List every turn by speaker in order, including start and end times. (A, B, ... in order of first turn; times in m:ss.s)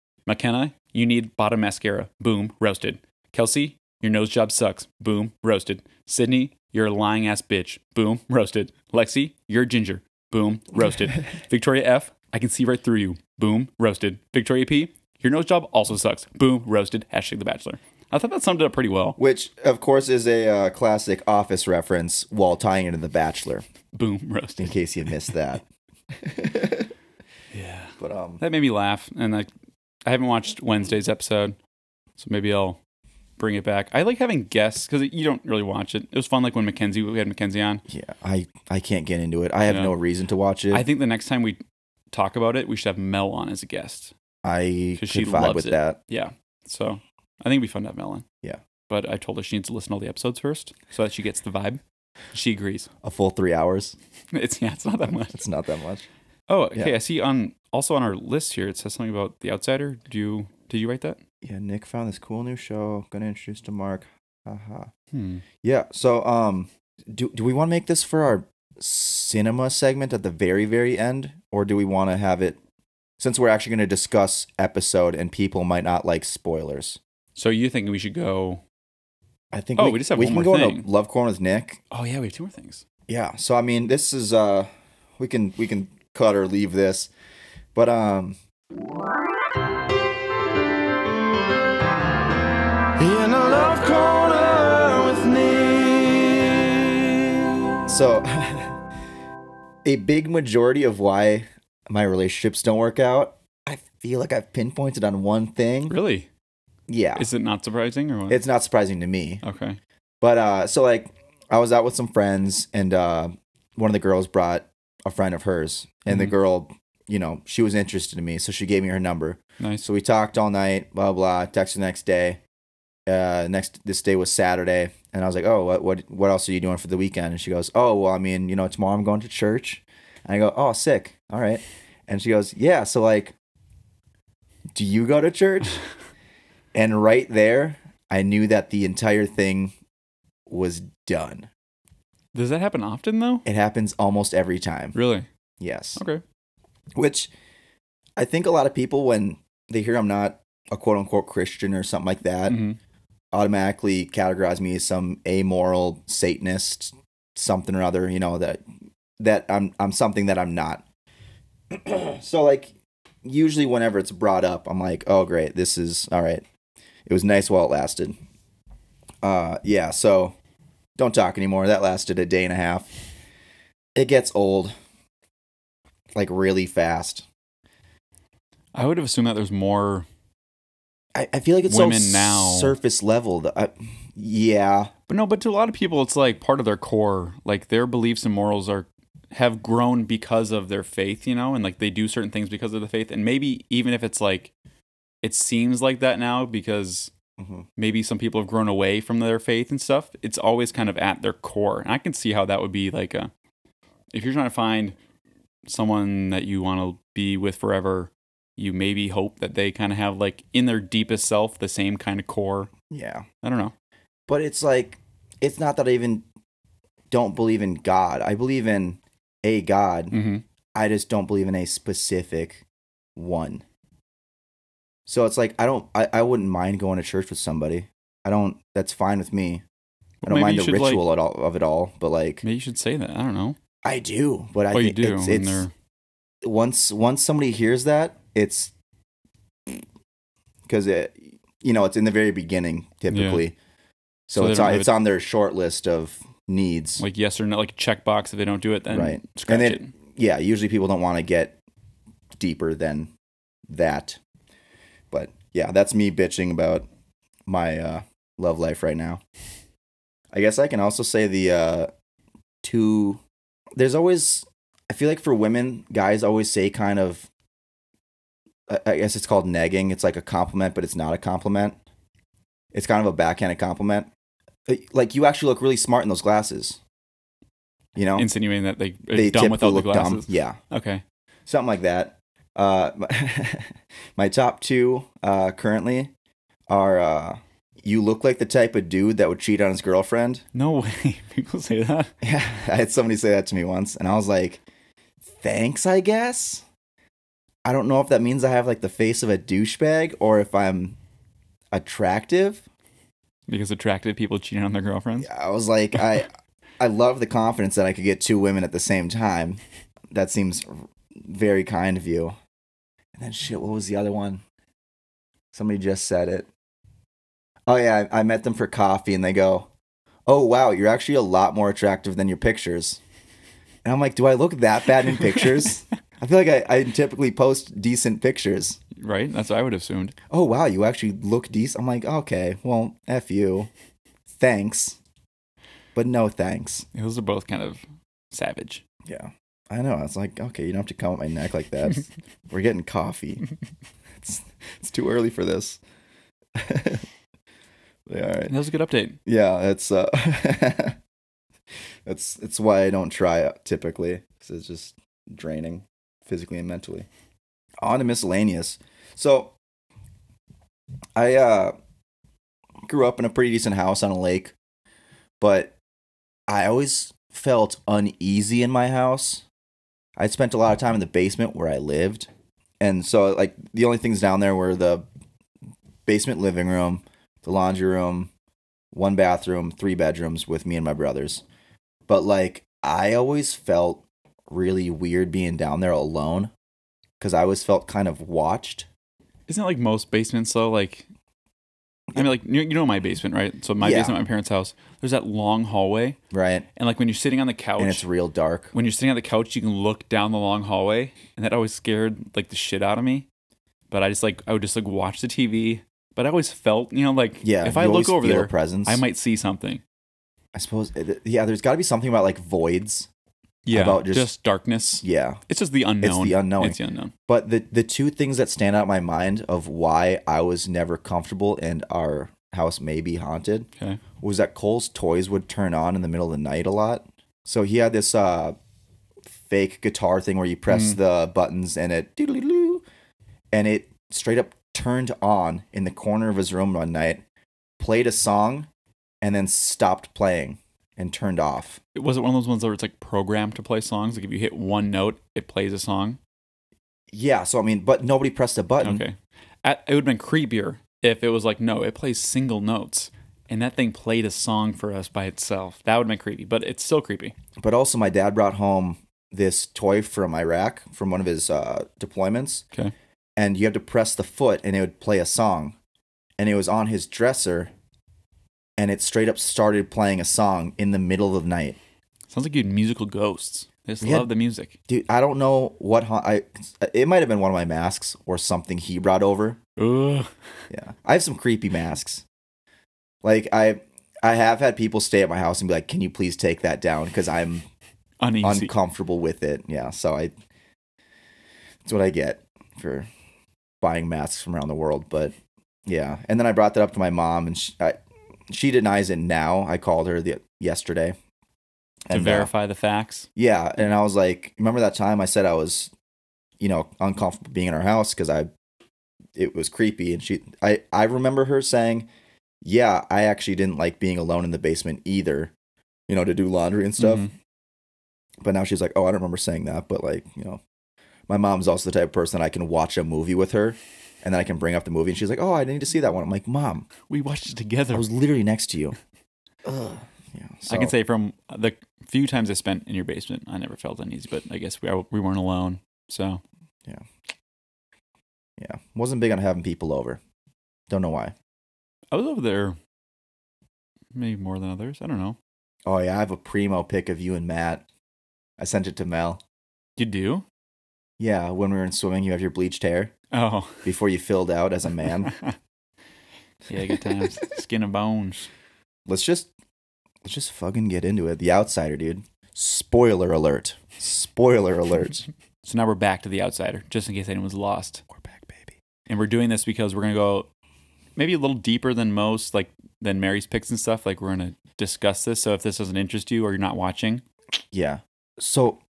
0:00.3-0:19.2 A
0:19.2-0:23.6 B
0:23.9-0:24.8 A
0:24.6-0:25.6 B
0:26.1-0:26.9 B
0:27.5-0:29.5 A
0:28.0-0:28.4 B
0:30.0-0:31.6 A
0:32.2-0:32.8 A
0:33.4-0:37.8 A
0:37.9-0:40.8 B
0:39.7-0:39.9 A
0:40.7-0:41.6 A
0:42.1-0:44.1 A
0:44.4-0:46.0 B
0:45.0-0:48.2 A
0:48.9-0:51.8 A
0:52.3-0:52.9 A
0:53.0-0:54.0 B
0:54.3-0:55.4 A
0:55.3-0:56.1 B
0:56.5-1:01.2 A
1:01.4-1:04.9 B
1:05.1-1:05.4 A
1:05.6-1:12.6 B
1:13.2-1:17.0 B
1:17.3-1:18.6 A
1:19.5-1:21.8 B
1:19.8-1:20.9 A
1:21.9-1:22.8 A
1:23.1-1:27.1 B
1:27.7-1:28.3 B
1:33.0-1:37.4 C
1:37.9-1:38.7 B
1:39.8-1:45.9 B
1:45.9-1:46.3 A
1:46.9-1:47.3 B
1:47.2-1:48.4 A
1:48.3-1:49.4 B
1:49.4-1:49.8 A
1:50.2-2:02.4 B
1:59.6-1:59.9 A
2:03.1-2:13.3 B
2:14.7-2:15.8 B
2:16.7-2:19.7 B
2:20.5-2:21.5 B
2:22.3-2:23.4 A
2:23.4-2:24.9 B
2:24.9-2:25.2 A
2:25.6-2:26.0 B
2:26.0-2:26.2 A
2:27.0-2:27.3 B
2:28.2-2:32.6 B
2:32.5-2:32.8 A
2:33.3-2:38.6 B
2:39.2-2:40.8 B
2:41.7-2:46.4 B
2:47.1-2:48.1 B
2:49.2-2:50.4 B
2:51.0-2:52.9 B
2:54.0-2:54.7 B
2:56.1-2:57.2 B
2:58.7-3:00.0 A
3:01.1-3:04.9 B
3:01.7-3:02.8 A
3:05.1-3:14.5 A
3:15.2-3:17.1 A
3:17.4-3:17.7 B
3:17.8-3:23.3 A
3:24.1-3:25.0 A
3:25.6-3:32.7 A
3:32.9-3:33.2 B
3:33.4-3:33.7 A
3:34.3-3:36.2 B
3:37.1-3:40.1 B
3:40.1-3:40.4 A
3:40.8-3:42.6 B
3:43.2-3:43.6 B
3:45.0-3:49.6 B
3:50.2-3:51.0 A
3:50.2-3:52.4 B
3:52.4-3:53.6 A
3:53.8-3:55.7 B
3:54.7-3:55.7 A
3:56.4-3:58.7 B
4:00.7-4:03.5 B
4:03.1-4:03.4 A
4:04.3-4:07.0 B
4:04.3-4:04.9 A
4:07.0-4:09.9 A
4:08.9-4:11.6 B
4:12.4-4:13.1 B
4:13.7-4:14.2 B
4:15.1-4:16.8 B
4:17.5-4:19.2 B
4:20.3-4:21.9 B
4:22.6-4:23.2 B
4:23.8-4:27.3 B
4:28.7-4:31.8 B
4:32.7-4:34.1 B
4:34.7-4:36.8 B
4:38.0-4:38.3 B
4:38.2-4:41.0 A
4:39.1-4:40.6 B
4:41.5-4:46.1 B
4:46.7-4:50.4 B
4:50.5-4:52.1 A
4:52.2-4:54.6 B
4:55.3-4:56.6 B
4:57.6-5:01.0 B
5:01.7-5:02.6 B
5:03.5-5:05.3 A
5:05.2-5:06.3 B
5:06.8-5:12.3 B
5:13.2-5:14.4 B
5:15.5-5:16.5 B
5:17.7-5:19.7 B
5:20.3-5:23.0 B
5:23.8-5:28.8 B
5:29.0-5:30.1 A
5:30.3-5:33.7 B
5:34.3-5:35.0 B
5:35.9-5:36.8 B
5:36.9-5:38.8 A
5:39.0-5:43.4 B
5:44.2-5:45.8 B
5:46.5-5:47.0 B
5:48.1-5:48.5 B
5:48.5-5:49.2 A
5:49.2-5:51.0 B
5:52.0-5:57.1 B
5:57.8-5:59.5 B
6:01.2-6:01.7 B
6:02.8-6:04.5 B
6:05.4-6:05.7 B
6:06.5-6:09.4 B
6:10.2-6:12.3 B
6:12.8-6:15.0 B
6:16.0-6:18.3 B
6:18.9-6:21.4 B
6:22.1-6:26.5 B
6:27.2-6:28.9 B
6:29.5-6:31.0 A
6:32.1-6:36.2 A
6:33.8-6:34.1 B
6:36.3-6:36.6 B
6:36.8-6:38.0 A
6:37.8-6:38.7 B
6:38.7-6:43.3 A
6:43.9-6:49.8 A
6:47.4-6:49.0 B
6:50.5-6:53.1 B
6:53.6-6:57.1 A
6:53.7-6:54.3 B
6:55.0-6:55.4 B
6:56.0-7:03.7 B
7:04.2-7:08.6 B
7:09.3-7:12.8 B
7:10.7-7:11.0 A
7:13.5-7:17.2 B
7:17.8-7:18.7 B
7:19.2-7:21.8 B
7:21.9-7:26.2 A
7:27.1-7:29.0 B
7:28.8-7:37.3 A
7:37.6-7:42.6 B
7:43.4-7:45.8 B
7:46.4-7:47.7 B
7:48.8-7:51.8 B
7:52.3-7:54.7 A
7:54.0-7:54.3 B
7:54.9-7:59.6 B
7:59.8-8:00.3 A
8:00.7-8:02.2 B
8:03.2-8:07.6 B
8:08.2-8:08.7 A
8:08.4-8:10.3 B
8:11.8-8:13.1 B
8:13.8-8:15.3 B
8:15.8-8:21.2 B
8:22.1-8:22.5 B
8:22.1-8:23.3 A
8:23.4-8:25.9 B
8:26.6-8:28.5 B
8:29.4-8:32.1 B
8:32.6-8:35.5 B
8:36.1-8:37.3 B
8:37.0-8:37.3 A
8:38.4-8:40.6 B
8:41.3-8:46.9 B
8:47.1-8:48.0 A
8:47.9-8:49.0 B
8:49.6-8:50.9 B
8:50.7-8:56.4 A
8:58.6-9:00.2 B
9:00.9-9:01.3 B
9:02.1-9:02.8 A
9:04.1-9:05.4 A
9:05.8-9:07.8 B
9:08.6-9:09.4 B
9:10.0-9:10.4 A
9:11.2-9:13.1 B
9:13.3-9:13.9 A
9:13.8-9:15.3 B
9:15.2-9:15.5 A
9:16.7-9:18.5 A
9:19.1-9:19.5 B
9:20.2-9:25.2 B
9:25.6-9:28.0 A
9:28.1-9:28.7 B
9:29.1-9:30.5 A
9:31.2-9:37.2 A
9:37.7-9:38.8 B